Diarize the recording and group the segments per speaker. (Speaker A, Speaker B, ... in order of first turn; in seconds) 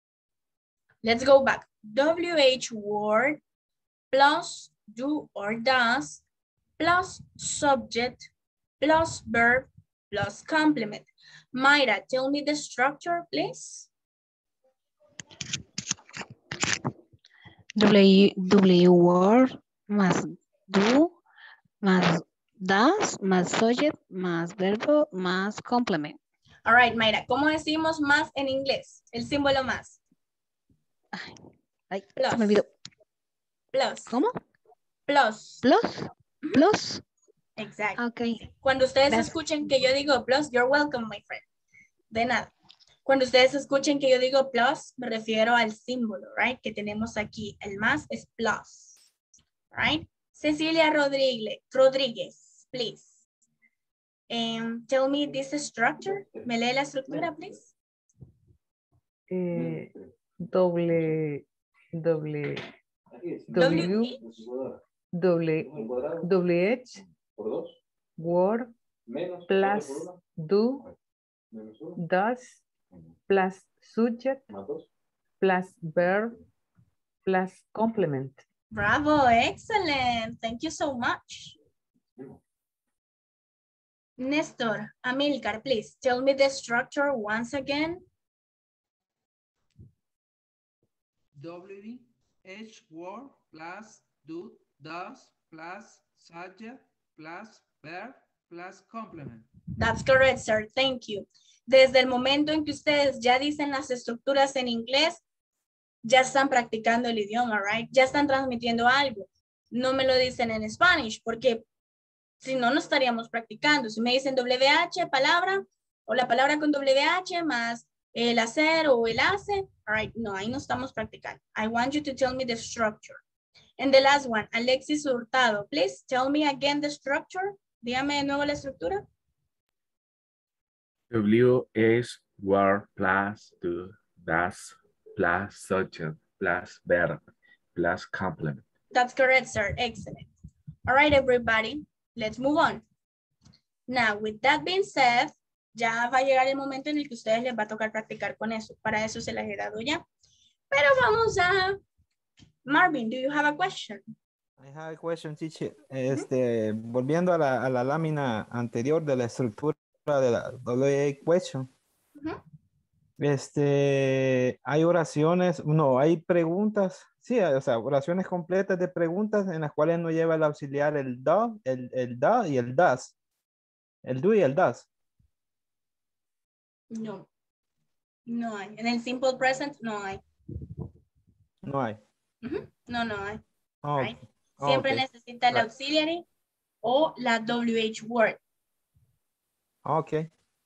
Speaker A: 1.0-3.4, 4.1-6.2, 6.8-8.3, 8.8-13.9, 26.6-30.0, 32.2-32.6, 33.7-34.1, 35.1-35.6, 37.6-41.4, 42.1-42.5, 43.0-49.0, 49.7-53.2, 54.3-57.7, 63.5-64.2, 78.7-81.5, 84.2-88.0, 99.8-105.2, 106.0-111.6, 112.4-123.2, 123.8-129.0, 138.9-140.3, 140.9-142.8, 143.9-150.0, 150.7-151.8, 152.7-154.0, 176.9-177.3, 178.3-180.2, 182.4-183.4, 183.9-186.2, 186.8-188.4
Speaker B: 17.8-21.1, 21.8-26.2, 31.9-32.7, 34.1-34.4, 35.6-37.0, 38.0-38.4, 39.1-39.3
Speaker C: 59.3-62.6, 63.5-64.2, 65.1-67.0, 68.2-68.7, 69.4-70.9, 71.9-72.6, 73.3-74.5, 75.4-76.4, 77.2-78.4
Speaker D: 91.3-99.5
Speaker E: 131.1-137.2, 137.7-138.6
Speaker F: 154.6-161.7, 163.2-173.1, 174.0-174.9, 181.6-182.0, 183.8-185.6, 189.8-190.3